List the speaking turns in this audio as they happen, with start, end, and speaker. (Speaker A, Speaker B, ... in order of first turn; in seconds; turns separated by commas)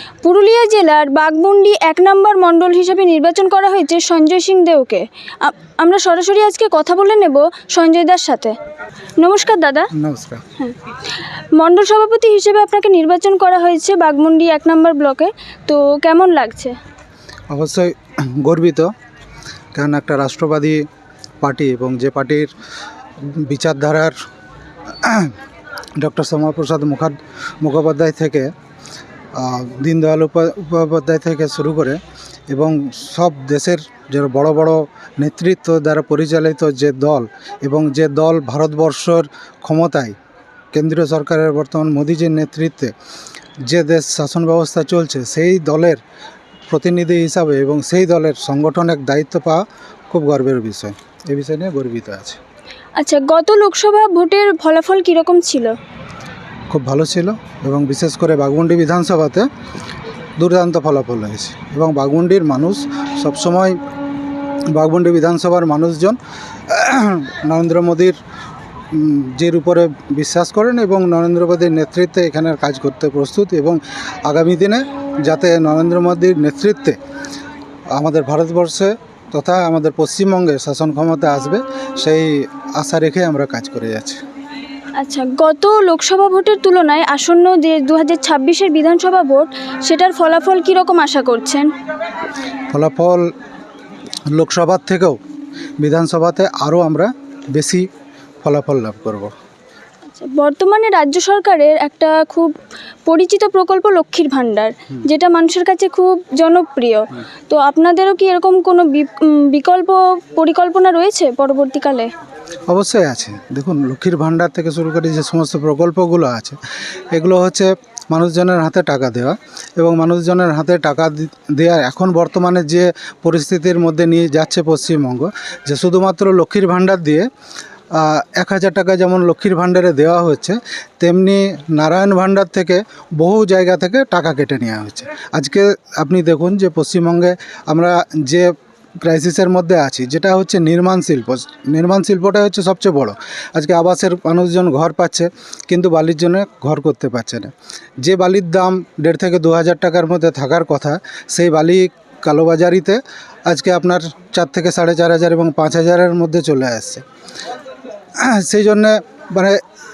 Speaker A: 0.2-8.6, Speaker A: 9.2-9.9, Speaker B: 9.9-10.4, Speaker A: 11.6-16.8, Speaker B: 17.5-18.9, Speaker B: 19.7-20.9, Speaker B: 21.4-22.5, Speaker B: 23.2-24.1, Speaker B: 25.0-25.4, Speaker B: 26.0-28.5, Speaker B: 29.3-40.2, Speaker B: 40.7-42.9, Speaker B: 43.7-46.0, Speaker B: 46.7-52.4, Speaker A: 53.0-55.7, Speaker B: 56.7-59.5, Speaker B: 60.4-63.8, Speaker B: 64.7-68.2, Speaker B: 68.9-77.0, Speaker B: 77.9-84.2, Speaker A: 85.0-91.7, Speaker B: 92.7-93.3, Speaker B: 94.3-95.2, Speaker B: 95.8-97.9, Speaker B: 98.4-99.3, Speaker A: 100.1-102.5, Speaker A: 103.1-112.1, Speaker B: 112.7-116.6, Speaker B: 117.1-127.3, Speaker B: 127.9-157.0, Speaker B: 158.2-159.6